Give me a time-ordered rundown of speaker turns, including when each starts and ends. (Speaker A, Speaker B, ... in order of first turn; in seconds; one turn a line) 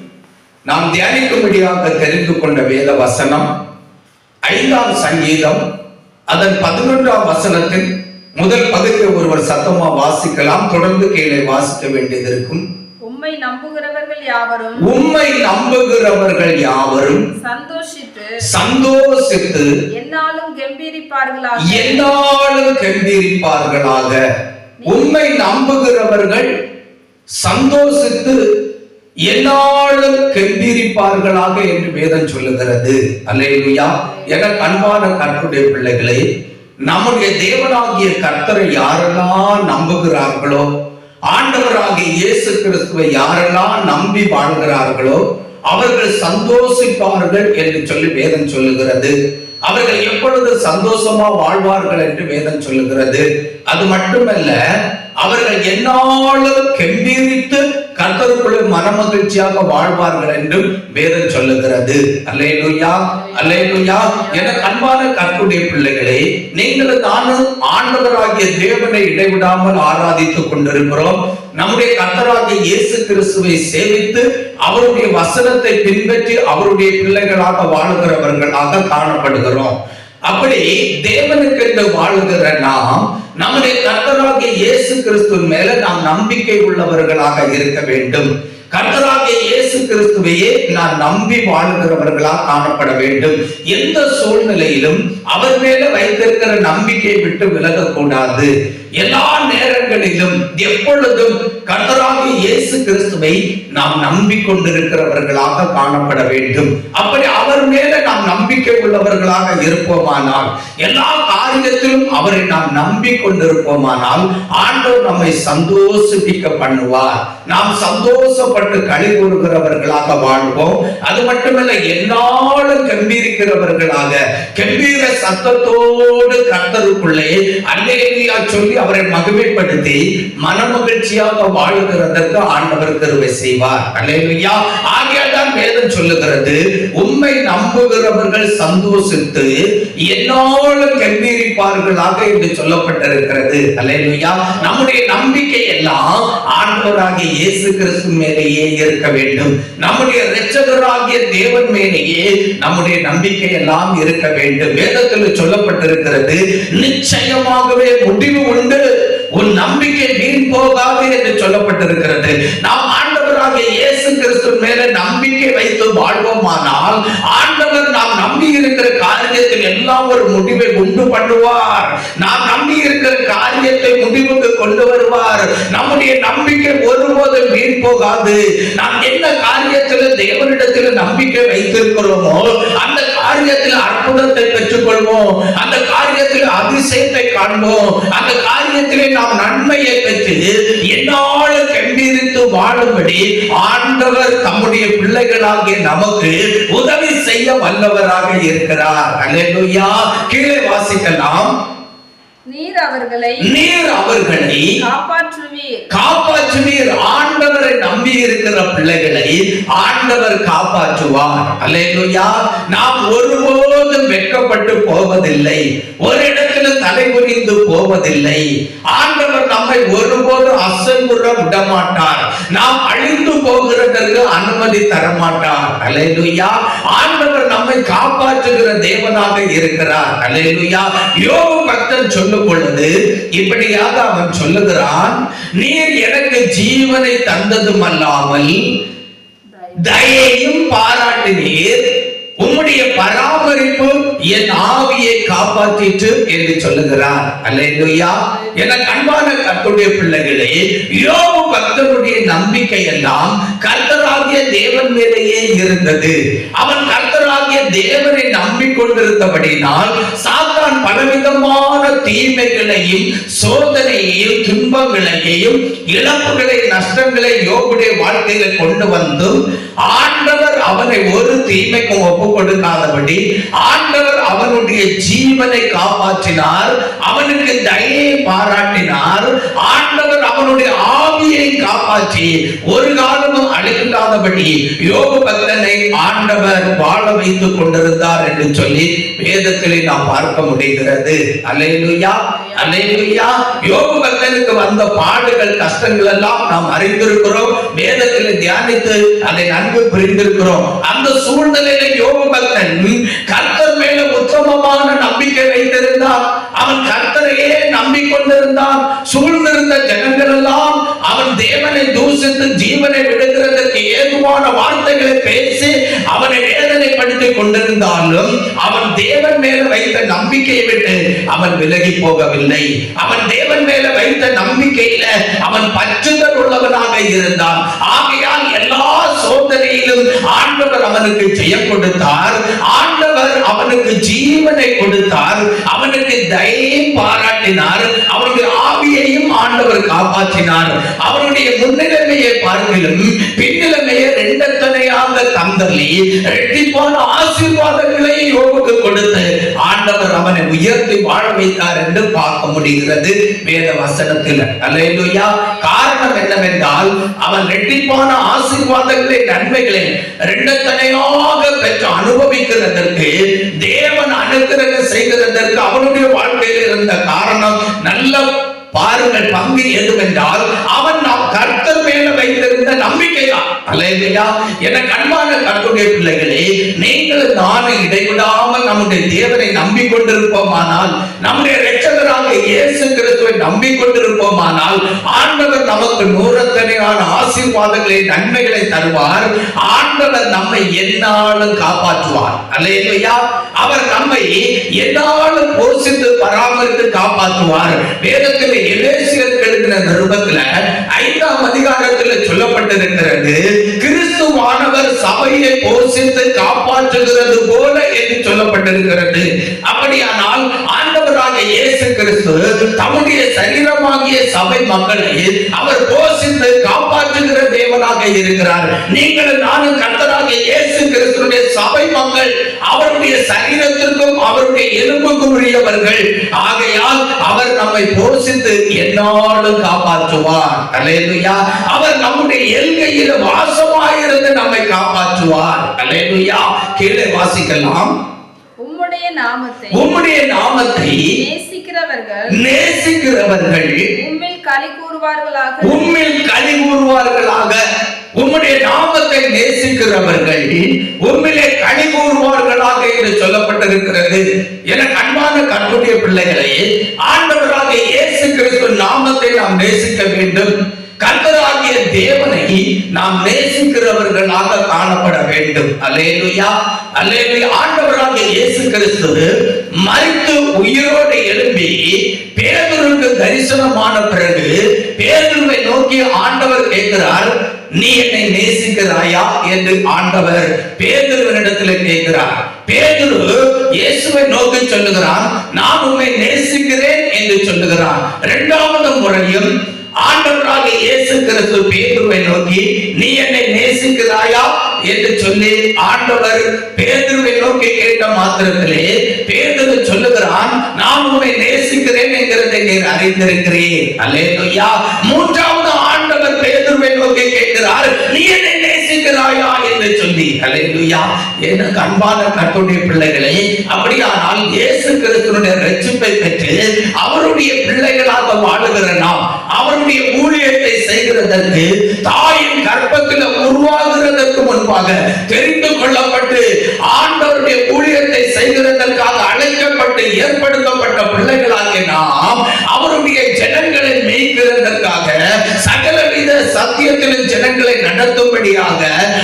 Speaker A: 0.7-3.5
Speaker A: 4.5-5.6
Speaker A: 6.3-7.9
Speaker A: 8.4-12.6
Speaker B: 13.0-15.0
Speaker A: 14.8-17.2
Speaker B: 17.4-18.4
Speaker A: 18.4-19.7
Speaker B: 19.9-22.1
Speaker A: 21.6-24.2
Speaker B: 24.8-25.3
Speaker A: 24.9-26.5
Speaker A: 27.4-28.4
Speaker A: 29.3-36.2
Speaker B: 34.0-35.0
Speaker A: 36.9-40.6
Speaker A: 41.3-49.1
Speaker A: 49.7-54.5
Speaker A: 55.2-79.8
Speaker B: 63.2-64.7
Speaker A: 80.3-139.5
Speaker A: 140.1-158.8
Speaker A: 159.3-190.4
Speaker A: 190.9-201.5
Speaker B: 202.5-203.5
Speaker A: 203.4-204.7
Speaker B: 204.8-205.8
Speaker A: 205.9-238.6
Speaker B: 239.6-240.0
Speaker A: 239.8-269.4
Speaker A: 269.9-363.1
Speaker B: 292.4-293.7
Speaker A: 363.6-437.9
Speaker B: 436.5-436.9
Speaker B: 438.6-439.9
Speaker A: 439.7-441.1
Speaker B: 440.5-442.4
Speaker A: 442.3-443.9
Speaker B: 444.0-446.0
Speaker A: 445.6-447.6
Speaker A: 448.2-460.5
Speaker A: 461.0-469.3
Speaker A: 469.8-489.5
Speaker A: 490.0-538.9